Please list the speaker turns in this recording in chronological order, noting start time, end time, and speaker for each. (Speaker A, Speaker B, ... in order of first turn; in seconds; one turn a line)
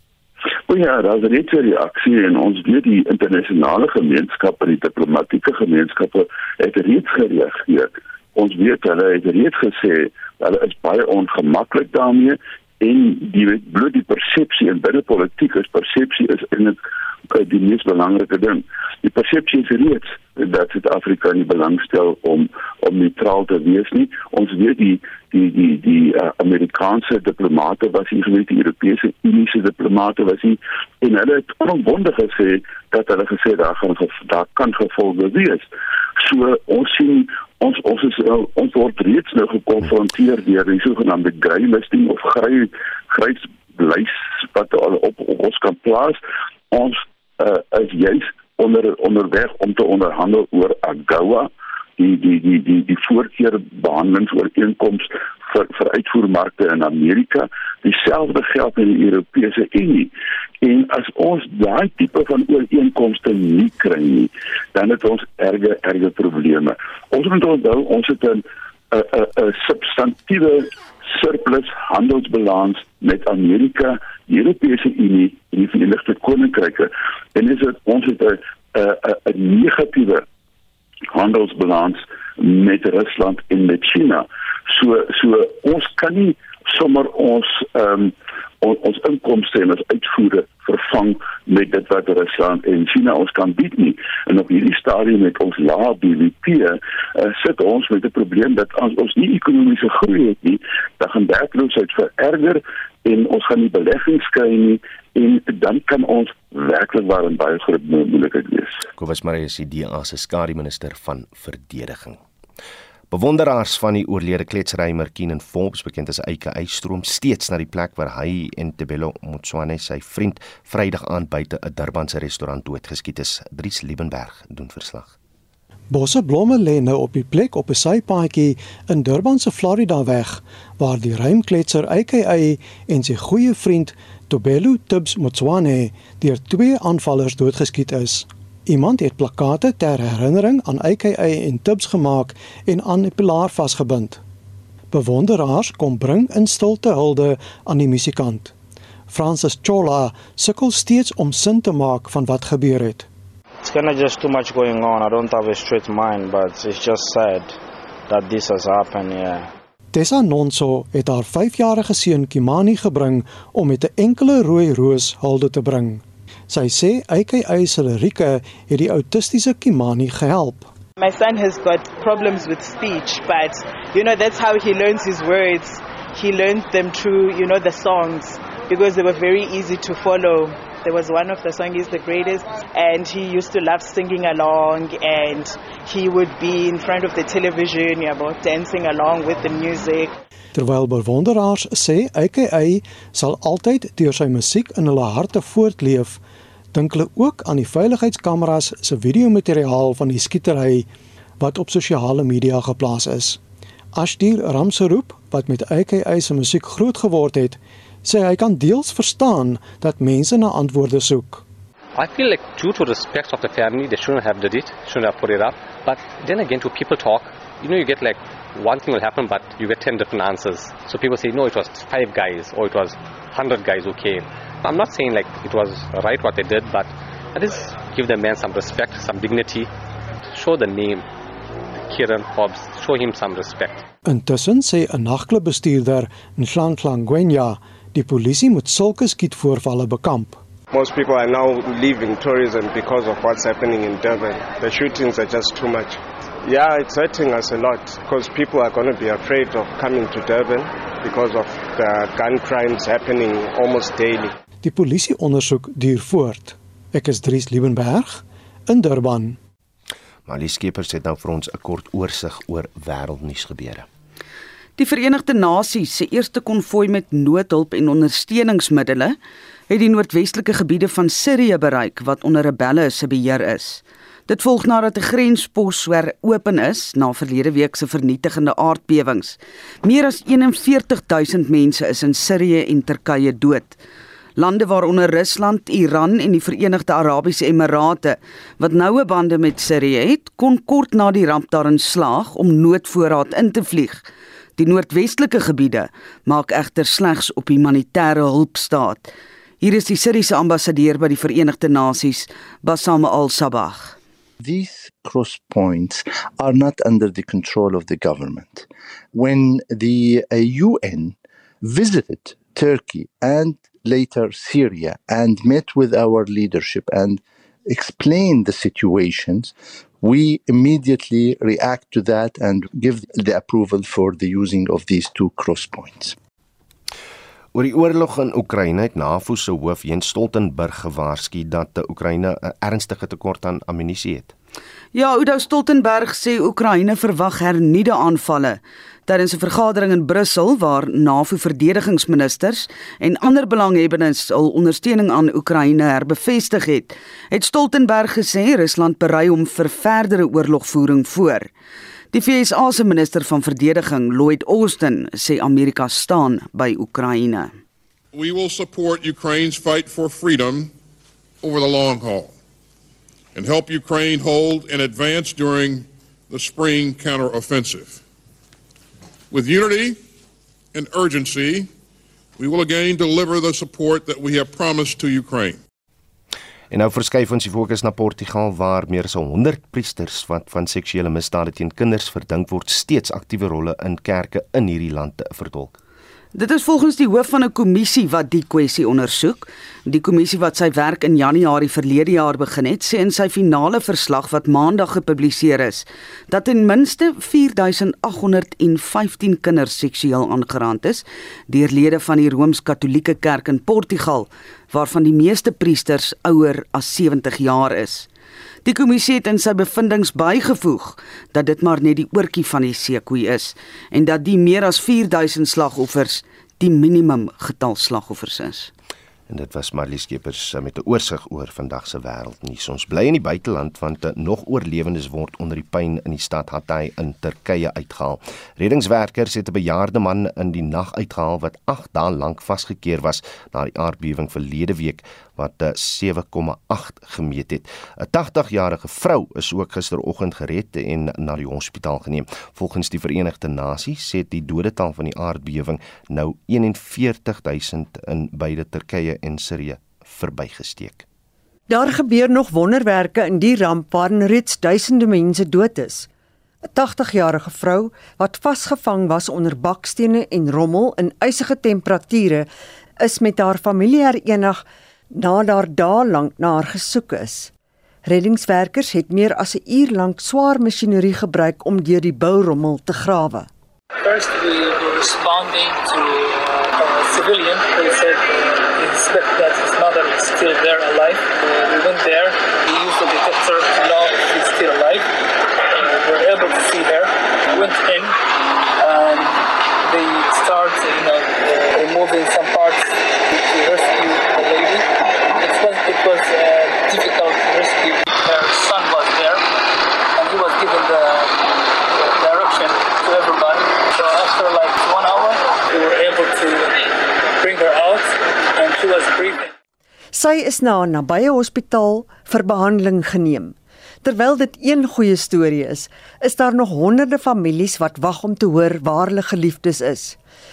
Speaker A: 0.7-16.8
Speaker A: 17.3-35.7
Speaker A: 36.2-46.2
Speaker A: 46.7-60.1
Speaker A: 60.6-80.2
Speaker A: 81.1-108.8
Speaker B: 109.0-112.2
Speaker B: 113.1-125.1
Speaker C: 125.9-144.2
Speaker C: 144.9-148.5
Speaker C: 149.1-153.1
Speaker D: 153.6-157.6
Speaker D: 158.1-159.5
Speaker C: 159.9-170.7
Speaker E: 171.0-190.1
Speaker C: 190.5-196.2
Speaker C: 196.7-200.9
Speaker C: 201.4-203.4
Speaker C: 203.9-211.4
Speaker F: 211.9-229.7
Speaker F: 230.3-231.1
Speaker F: 231.9-233.8
Speaker C: 234.0-240.4
Speaker G: 240.7-254.3
Speaker C: 254.6-259.4
Speaker B: 260.2-263.9
Speaker H: 264.8-269.2
Speaker H: 269.7-283.8
Speaker H: 284.4-294.0
Speaker H: 294.6-299.1
Speaker H: 299.6-304.0
Speaker I: 304.4-326.1
Speaker B: 327.5-334.3
Speaker H: 334.9-351.5
Speaker H: 352.1-357.6
Speaker J: 358.1-360.7
Speaker J: 361.4-362.3
Speaker J: 363.3-368.0
Speaker J: 369.3-370.0
Speaker J: 370.7-371.7
Speaker J: 372.4-375.6
Speaker B: 376.7-385.7
Speaker H: 386.3-408.1
Speaker H: 408.6-418.7
Speaker B: 419.3-451.0
Speaker K: 451.7-456.1
Speaker K: 456.7-462.5
Speaker K: 463.0-467.5
Speaker K: 468.0-473.5
Speaker L: 474.0-485.1
Speaker L: 485.7-488.1
Speaker L: 488.8-494.9
Speaker L: 495.4-499.4
Speaker L: 500.2-509.5
Speaker K: 510.1-520.2